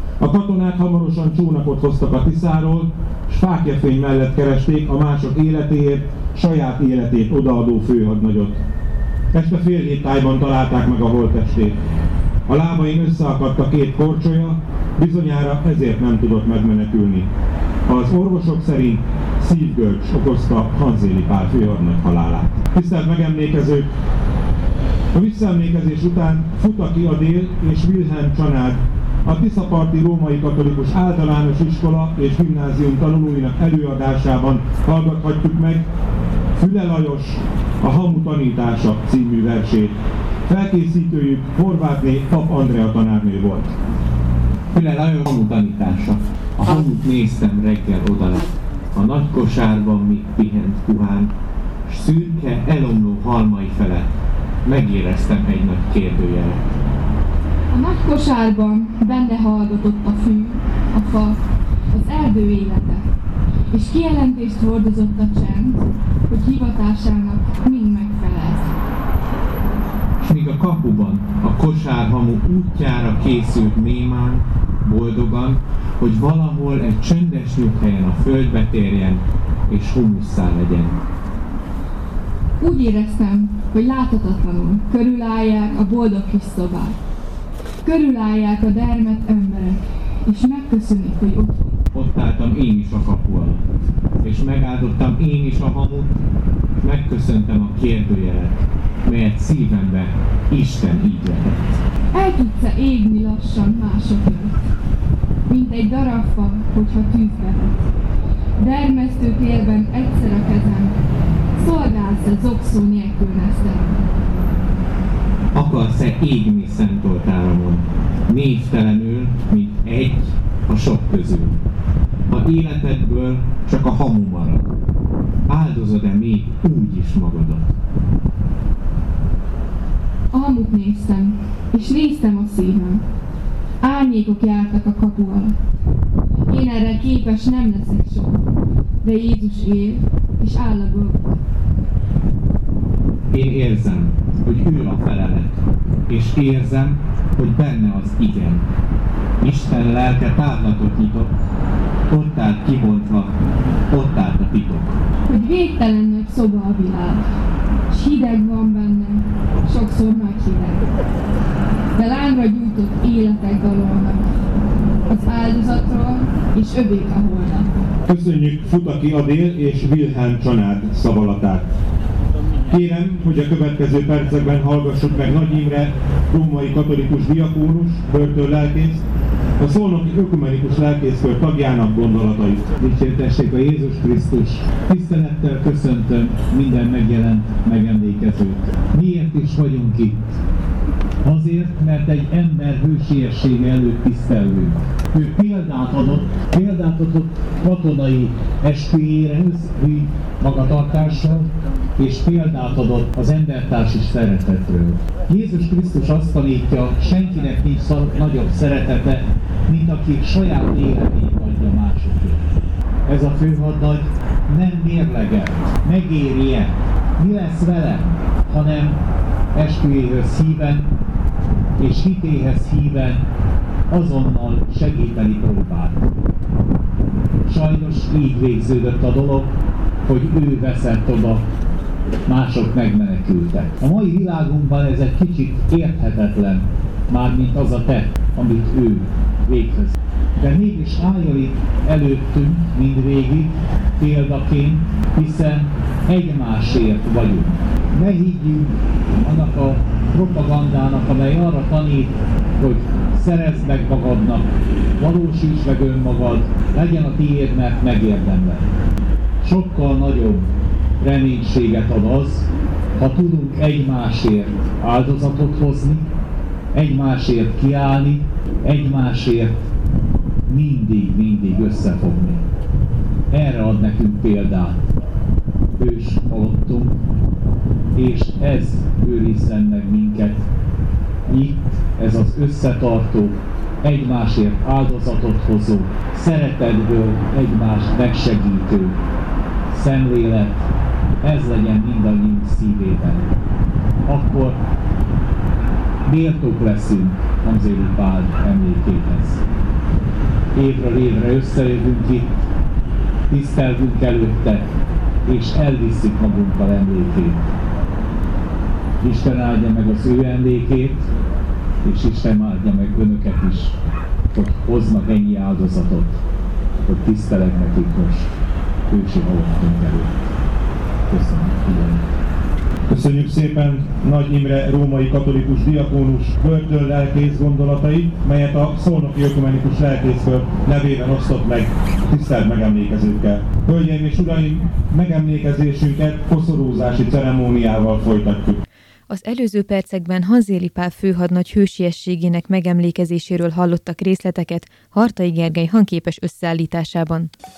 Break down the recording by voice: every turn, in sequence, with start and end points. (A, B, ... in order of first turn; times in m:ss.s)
0:00.2-0:08.6 A
0:09.3-0:11.8 A
0:12.5-0:17.3 A
0:17.9-0:23.9 A
0:25.1-0:35.8 A
0:36.6-0:39.9 A
0:40.4-0:43.8 A
0:44.7-0:51.3 B
0:51.9-0:54.1 B
0:54.6-0:56.6 B
0:57.7-1:01.4 C
1:01.9-1:03.0 C
1:03.7-1:08.7 C
1:10.2-1:21.0 B
1:22.6-1:27.0 C
1:27.8-1:31.7 C
1:31.9-1:33.6 B
1:34.2-1:36.1 B
1:36.8-1:41.6 B
1:42.1-1:44.5 C
1:45.5-1:47.8 C
1:48.6-1:51.0 C
1:51.6-1:54.0 C
1:55.5-2:01.6 B
2:02.3-2:04.7 B
2:05.5-2:07.6 B
2:10.3-2:13.0 C
2:13.8-2:15.6 C
2:16.5-2:18.4 C
2:19.0-2:21.4 C
2:23.3-2:25.6 B
2:26.1-2:28.6 B
2:29.4-2:31.3 B
2:32.1-2:33.3 B
2:33.9-2:35.0 B
2:35.3-2:37.2 C
2:37.9-2:40.8 C
2:41.9-2:44.2 C
2:45.1-2:47.7 C
2:48.1-2:51.7 A
2:52.7-2:59.0 A
2:59.6-3:02.6 A
3:02.8-3:10.2 D
3:11.2-3:32.4 D
3:33.0-3:39.0 D
3:39.5-3:40.9 D
3:41.8-3:43.2 D
3:43.9-3:46.0 D
3:47.4-3:49.5 D
3:50.0-3:51.4 D
3:52.2-4:18.7 D
4:19.4-4:20.5 D
4:21.0-4:26.1 D
4:26.7-4:29.6 D
4:30.4-4:32.4 D
4:33.3-4:34.8 D
4:35.8-4:37.0 D
4:37.9-4:40.4 D
4:41.3-4:49.0 D
4:49.7-4:50.7 D
4:51.2-4:53.3 D
4:54.1-4:54.6 D
4:56.0-4:59.4 D
5:00.5-5:02.4 D
5:03.3-5:04.7 D
5:05.3-5:07.4 D
5:09.0-5:11.1 D
5:11.8-5:13.8 D
5:14.3-5:16.2 D
5:16.8-5:18.3 D
5:18.9-5:20.3 D
5:21.1-5:22.0 D
5:22.9-5:38.6 A
5:39.1-5:47.3 E